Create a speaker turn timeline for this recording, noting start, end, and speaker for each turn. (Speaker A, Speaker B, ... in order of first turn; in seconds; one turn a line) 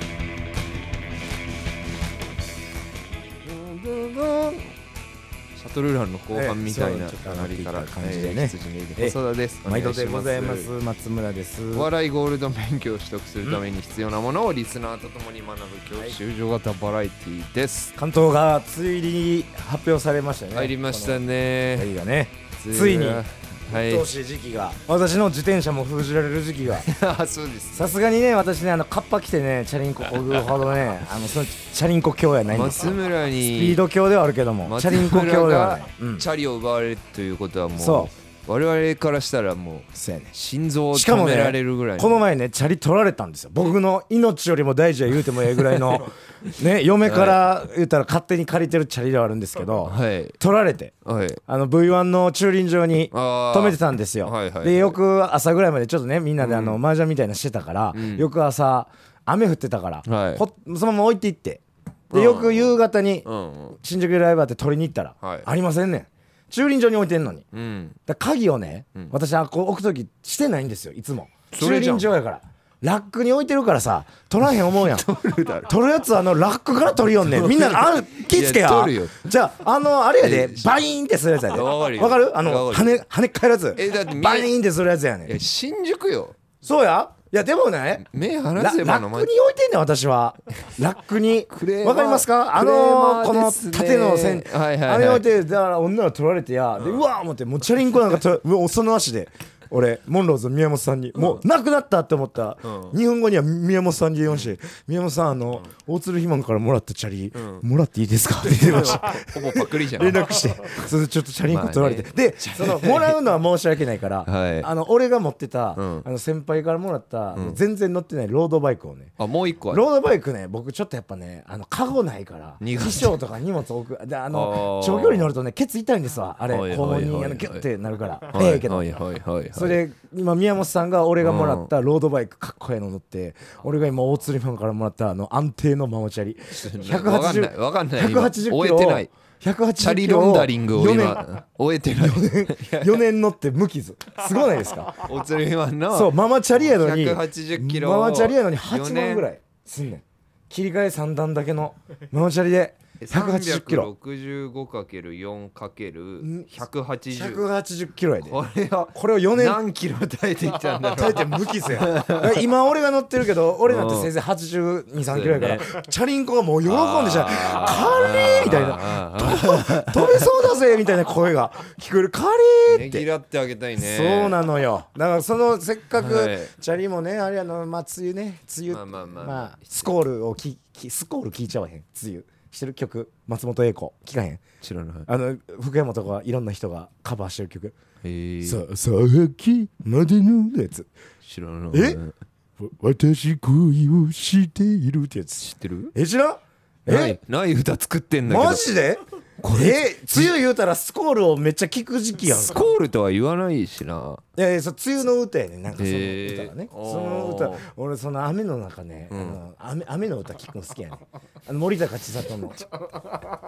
Speaker A: 3.4-4.8
Speaker A: 5.6-10.7
Speaker B: 6.3-11.9
Speaker A: 11.7-17.9
Speaker B: 18.0-26.9
Speaker A: 20.5-21.9
Speaker A: 22.6-24.1
Speaker A: 26.7-28.0
Speaker B: 27.7-36.3
Speaker A: 32.5-33.8
Speaker A: 34.6-42.2
Speaker B: 37.8-38.1
Speaker B: 39.9-40.3
Speaker B: 40.9-50.9
Speaker A: 45.6-47.4
Speaker A: 49.8-50.4
Speaker A: 51.0-51.4
Speaker B: 51.5-67.5
Speaker A: 53.1-55.0
Speaker A: 56.4-56.8
Speaker A: 57.9-58.3
Speaker A: 60.0-60.5
Speaker A: 62.1-63.8
Speaker A: 65.2-65.5
Speaker A: 67.5-68.0
Speaker B: 68.1-75.0
Speaker A: 71.5-72.1
Speaker A: 74.6-75.7
Speaker B: 75.7-85.3
Speaker A: 77.3-79.3
Speaker A: 80.2-80.8
Speaker A: 81.5-83.0
Speaker A: 83.8-84.5
Speaker A: 85.2-86.4
Speaker B: 86.6-119.2
Speaker A: 88.0-89.3
Speaker A: 91.5-95.2
Speaker A: 96.8-97.0
Speaker A: 102.6-103.0
Speaker A: 107.3-107.7
Speaker A: 108.4-110.9
Speaker A: 111.5-113.2
Speaker A: 114.2-114.7
Speaker A: 115.8-116.1
Speaker A: 117.3-117.6
Speaker A: 119.2-119.9
Speaker B: 119.7-128.9
Speaker A: 122.6-123.2
Speaker A: 124.3-125.3
Speaker A: 126.5-127.7
Speaker A: 128.3-129.8
Speaker B: 129.5-141.3
Speaker A: 131.2-131.7
Speaker A: 136.5-139.1
Speaker A: 139.8-143.0
Speaker B: 141.9-145.1
Speaker A: 145.0-149.3
Speaker B: 145.9-153.9
Speaker A: 153.0-157.4
Speaker B: 156.2-156.5
Speaker B: 157.1-158.4
Speaker A: 158.2-162.4
Speaker B: 158.9-159.6
Speaker B: 160.7-173.1
Speaker A: 163.7-164.1
Speaker A: 165.1-165.7
Speaker A: 166.7-170.3
Speaker A: 172.7-174.4
Speaker B: 173.8-184.4
Speaker A: 176.0-176.5
Speaker A: 178.7-179.9
Speaker A: 184.6-185.1
Speaker B: 185.1-187.8
Speaker A: 188.0-188.6
Speaker B: 188.4-190.9
Speaker A: 191.2-192.1
Speaker B: 191.7-192.0
Speaker B: 192.6-197.2
Speaker A: 195.4-195.9
Speaker A: 196.9-198.8
Speaker B: 198.2-202.6
Speaker A: 199.4-200.3
Speaker A: 202.3-204.2
Speaker B: 204.3-212.7
Speaker A: 205.8-207.7
Speaker A: 209.1-209.4